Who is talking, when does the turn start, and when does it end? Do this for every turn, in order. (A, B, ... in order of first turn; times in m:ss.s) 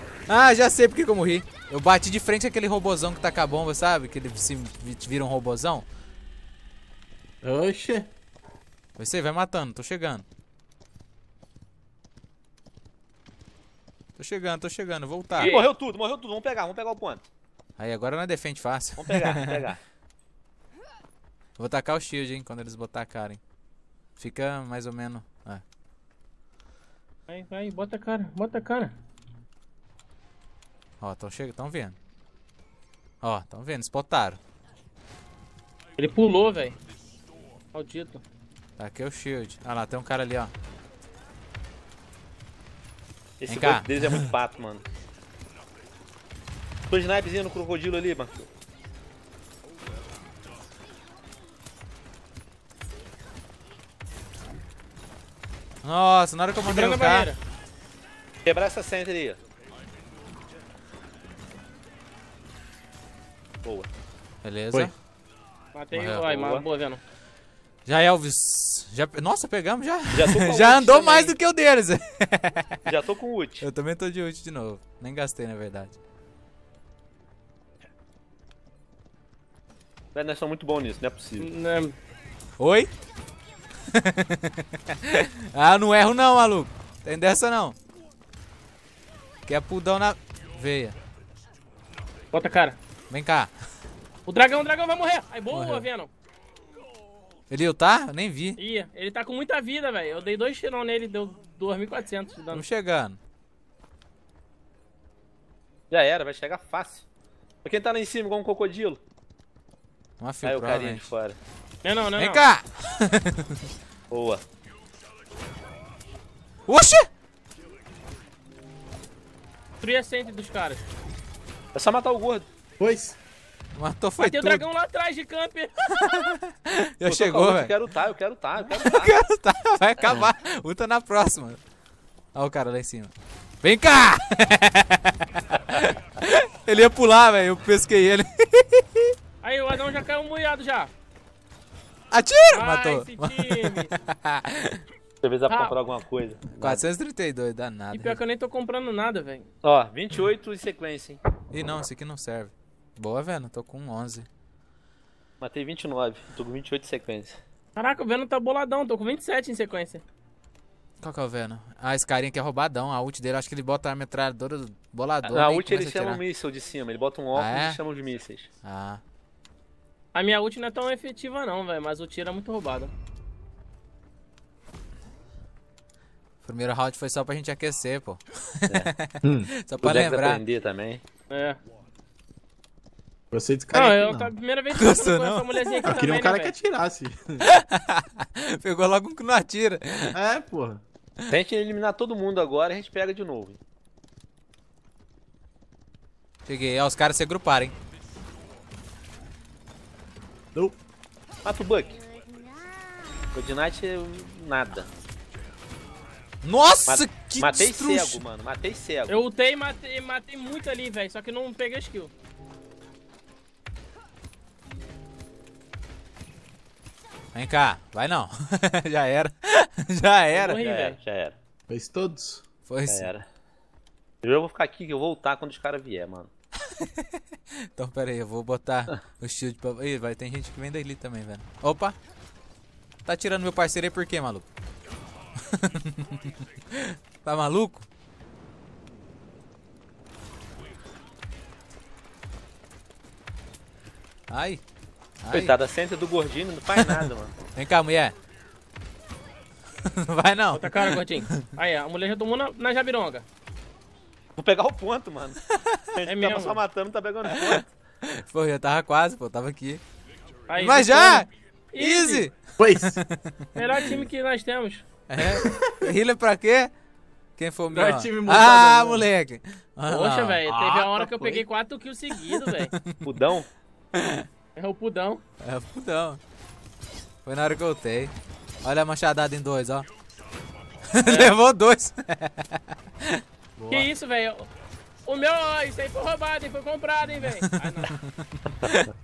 0:00.3-0:05.9 A
0:07.4-0:08.1 B
0:09.0-0:10.3 A
0:14.2-0:15.6 A
0:15.4-0:15.7 C
0:15.4-0:17.2 D
0:17.8-0:19.7 A
0:19.0-0:19.8 D
0:21.6-0:23.4 A
0:24.2-0:25.6 A
0:27.3-0:29.0 C
0:31.0-0:32.0 A
0:33.2-0:34.4 A
0:36.0-0:36.8 C
0:37.7-0:38.2 C
0:38.8-0:40.5 A
0:43.4-0:44.8 D
0:43.5-0:44.3 A
0:46.9-0:48.5 D
0:55.8-0:57.3 A
0:56.6-0:57.4 C
0:58.4-0:59.4 D
1:03.6-1:03.9 D
1:04.4-1:04.9 A
1:05.7-1:07.0 C
1:05.9-1:06.3 A
1:06.3-1:06.6 D
1:07.9-1:12.9 A
1:10.1-1:11.4 D
1:12.9-1:13.7 D
1:13.6-1:16.0 A
1:20.1-1:21.5 D
1:21.4-1:22.0 C
1:22.6-1:22.9 A
1:23.9-1:27.8 A
1:29.5-1:31.0 A
1:32.3-1:32.8 C
1:33.1-1:33.5 A
1:34.3-1:36.1 C
1:35.5-1:35.9 A
1:37.5-1:38.6 A
1:38.6-1:42.6 C
1:42.5-1:43.2 A
1:45.9-1:47.1 D
1:47.6-1:49.0 D
1:50.2-1:51.1 A
1:50.4-1:51.4 D
1:51.8-1:52.5 C
1:52.2-1:53.7 A
1:54.1-1:54.4 D
1:56.7-1:57.1 A
1:59.8-2:00.8 C
2:01.7-2:02.5 D
2:02.8-2:03.2 B
2:03.8-2:04.7 A
2:04.2-2:05.7 C
2:05.9-2:07.8 A
2:07.0-2:09.2 D
2:08.8-2:11.6 A
2:12.4-2:13.1 A
2:13.6-2:19.1 A
2:19.4-2:20.9 C
2:22.1-2:24.8 A
2:22.5-2:23.9 C
2:25.2-2:26.9 D
2:25.5-2:25.8 C
2:26.6-2:28.2 A
2:27.9-2:29.5 C
2:29.6-2:31.2 D
2:31.5-2:34.3 A
2:35.4-2:37.4 D
2:37.8-2:40.0 C
2:41.0-2:46.2 A
2:45.3-2:48.5 D
2:47.3-2:47.8 A
2:48.6-2:49.0 A
2:50.1-2:52.9 C
2:56.4-3:00.4 A
2:58.7-2:58.9 D
2:59.2-2:59.5 B
2:59.8-3:01.0 D
3:01.3-3:01.6 C
3:03.3-3:04.3 B
3:03.7-3:06.5 C
3:04.7-3:05.9 A
3:05.9-3:07.5 B
3:07.4-3:10.2 A
3:10.1-3:10.8 B
3:11.3-3:13.6 D
3:16.5-3:17.8 A
3:21.4-3:22.0 D
3:23.3-3:24.9 D
3:26.4-3:28.2 A
3:26.9-3:29.2 D
3:29.1-3:32.1 C
3:37.4-3:40.6 A
3:40.3-3:41.0 C
3:40.6-3:41.4 D
3:41.7-3:42.4 B
3:42.6-3:43.1 A
3:42.9-3:43.2 D
3:44.2-3:46.3 D
3:46.6-3:47.2 A
3:47.8-3:52.0 A
3:53.1-3:54.5 A
3:55.4-3:57.9 A
4:04.3-4:04.6 A
4:05.2-4:05.6 A
4:05.3-4:07.3 D
4:06.8-4:08.2 A
4:09.8-4:11.4 A
4:10.5-4:13.2 C
4:14.4-4:15.4 D
4:15.5-4:15.8 A
4:15.9-4:17.7 D
4:16.0-4:16.6 C
4:17.2-4:19.8 A
4:20.5-4:22.3 C
4:20.5-4:24.0 A
4:22.6-4:23.0 B
4:23.6-4:24.8 C
4:25.1-4:26.7 A
4:25.3-4:25.8 B
4:27.4-4:30.5 A
4:27.7-4:29.1 B
4:29.9-4:32.7 C
4:30.5-4:31.4 B
4:32.2-4:33.2 A
4:33.0-4:33.5 D
4:34.0-4:34.3 A
4:34.6-4:35.2 C
4:35.4-4:36.2 A
4:37.2-4:38.1 A
4:38.6-4:39.9 A
4:40.9-4:43.2 A
4:41.0-4:41.3 C
4:43.6-4:43.9 B
4:43.7-4:44.5 C
4:45.0-4:48.0 C
4:47.1-4:48.9 A